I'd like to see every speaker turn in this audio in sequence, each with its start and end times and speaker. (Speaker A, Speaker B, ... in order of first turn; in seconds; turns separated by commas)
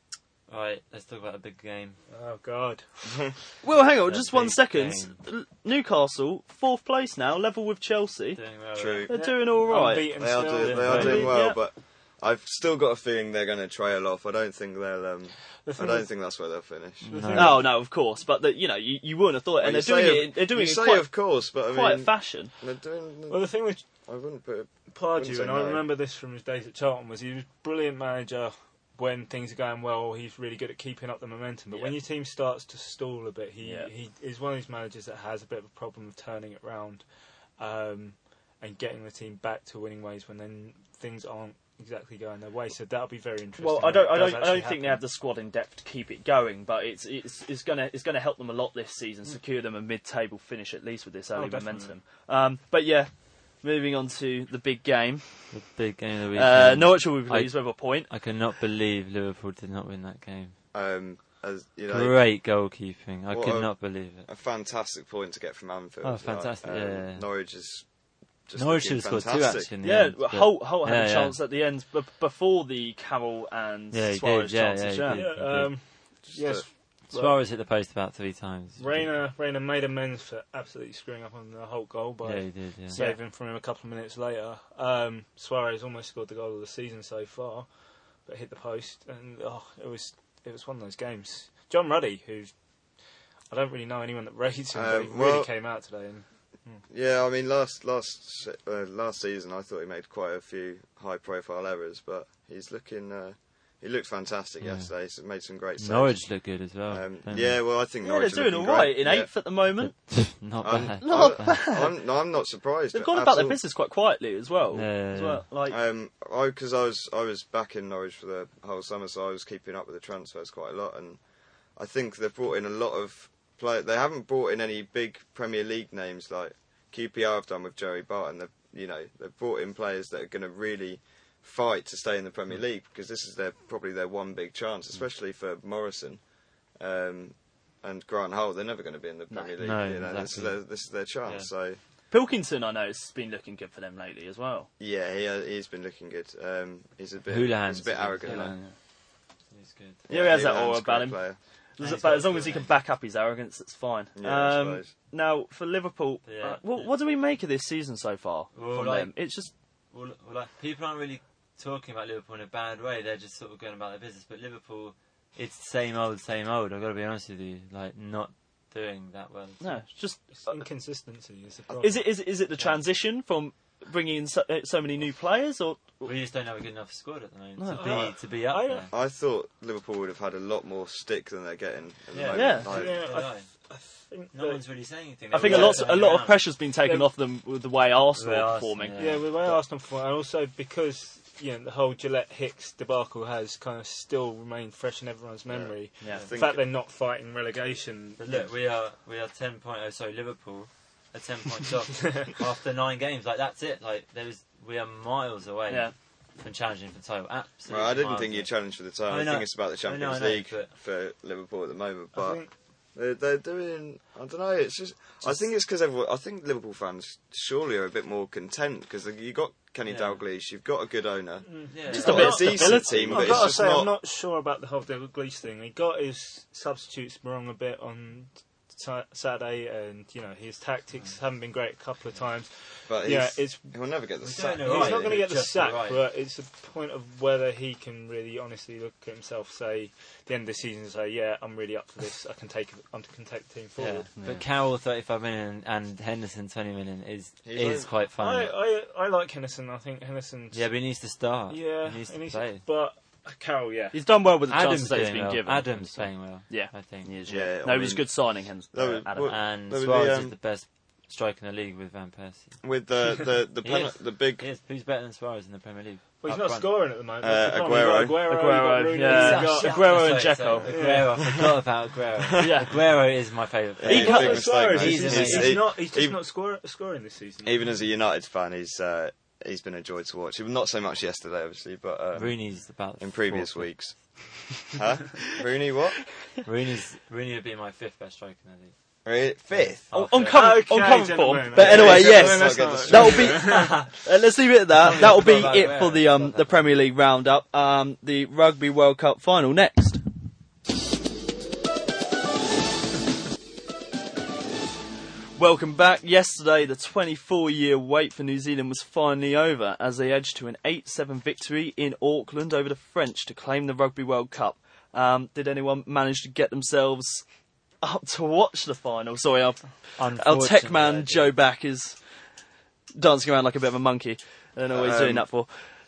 Speaker A: 0.5-2.0, Speaker B: 2.1-3.4, Speaker C: 3.6-8.4, Speaker A: 4.0-5.2, Speaker A: 8.3-9.1, Speaker D: 8.8-9.1, Speaker C: 9.1-11.6, Speaker B: 9.1-11.3, Speaker D: 10.2-17.1, Speaker A: 10.7-11.2, Speaker B: 15.7-16.1, Speaker B: 17.1-17.7, Speaker A: 17.1-17.6, Speaker C: 17.3-22.5, Speaker D: 19.6-25.9, Speaker B: 23.3-23.8, Speaker B: 24.9-37.0, Speaker C: 33.6-33.9, Speaker B: 37.6-45.0, Speaker C: 43.6-55.6, Speaker B: 51.4-52.0, Speaker A: 55.5-60.5, Speaker C: 56.3-58.1, Speaker D: 60.7-62.2, Speaker A: 61.9-64.3, Speaker D: 63.3-67.9, Speaker A: 66.0-67.2, Speaker D: 68.5-69.7, Speaker A: 68.5-71.4, Speaker C: 69.8-75.3, Speaker A: 73.9-75.8, Speaker B: 75.1-77.4, Speaker D: 76.3-76.7, Speaker A: 77.1-79.1, Speaker B: 78.8-87.7, Speaker A: 82.2-83.0, Speaker C: 82.9-83.2, Speaker B: 88.2-92.5, Speaker B: 93.5-96.8, Speaker D: 94.7-95.5, Speaker D: 96.9-109.3, Speaker A: 104.6-104.9, Speaker A: 105.8-107.6, Speaker C: 108.0-110.3, Speaker A: 109.8-111.6, Speaker D: 110.6-113.6, Speaker C: 111.0-112.0, Speaker C: 112.9-115.8, Speaker A: 114.7-115.5, Speaker D: 115.7-141.8, Speaker C: 139.3-139.8, Speaker A: 139.6-141.5, Speaker C: 142.1-144.7, Speaker D: 144.8-148.6, Speaker A: 147.3-148.6, Speaker C: 148.2-148.7, Speaker A: 149.5-150.1, Speaker D: 150.1-151.4, Speaker C: 150.1-151.2, Speaker C: 151.8-159.5, Speaker A: 151.8-152.7, Speaker D: 154.2-154.9, Speaker A: 156.2-156.9, Speaker A: 158.6-159.1, Speaker A: 159.9-169.8, Speaker C: 169.6-170.6, Speaker B: 170.3-172.1, Speaker C: 171.8-176.1, Speaker A: 176.0-178.9, Speaker C: 177.6-178.1, Speaker B: 177.7-178.9, Speaker D: 178.9-183.2, Speaker A: 182.2-183.5, Speaker C: 182.3-182.7, Speaker B: 182.3-184.6, Speaker A: 184.3-186.5, Speaker B: 185.3-187.1, Speaker C: 185.3-189.6, Speaker A: 188.2-189.3, Speaker B: 189.0-198.5, Speaker D: 195.5-196.6, Speaker C: 196.0-196.2, Speaker A: 198.2-208.5, Speaker B: 202.0-202.3, Speaker D: 207.7-223.9, Speaker A: 209.1-210.7, Speaker B: 212.2-212.5, Speaker A: 219.9-220.2, Speaker B: 221.5-233.7, Speaker A: 221.7-222.7, Speaker C: 221.9-223.5, Speaker D: 232.9-235.2, Speaker A: 234.2-236.1, Speaker B: 234.6-244.1, Speaker A: 243.8-248.5, Speaker C: 244.2-244.4, Speaker D: 247.4-247.9, Speaker B: 248.2-250.7, Speaker A: 250.5-252.7, Speaker B: 251.5-254.0, Speaker C: 253.9-259.3, Speaker A: 254.5-257.1, Speaker D: 257.3-260.4, Speaker A: 259.2-262.6, Speaker D: 262.6-264.5, Speaker A: 263.6-266.7, Speaker B: 266.2-271.5, Speaker D: 267.2-268.3, Speaker C: 268.3-270.9, Speaker A: 269.0-275.7, Speaker C: 272.4-272.7, Speaker D: 273.8-276.2, Speaker B: 273.9-277.6, Speaker C: 273.9-274.3, Speaker D: 277.4-286.0, Speaker A: 282.2-283.9, Speaker A: 286.4-288.7, Speaker D: 289.1-289.8, Speaker A: 289.5-290.6, Speaker C: 289.9-300.0, Speaker B: 290.3-293.9, Speaker D: 291.5-293.4, Speaker A: 293.4-294.0, Speaker A: 294.8-296.7, Speaker C: 305.4-317.2, Speaker C: 317.8-322.0, Speaker A: 320.0-321.4, Speaker C: 323.0-325.6, Speaker D: 324.7-325.3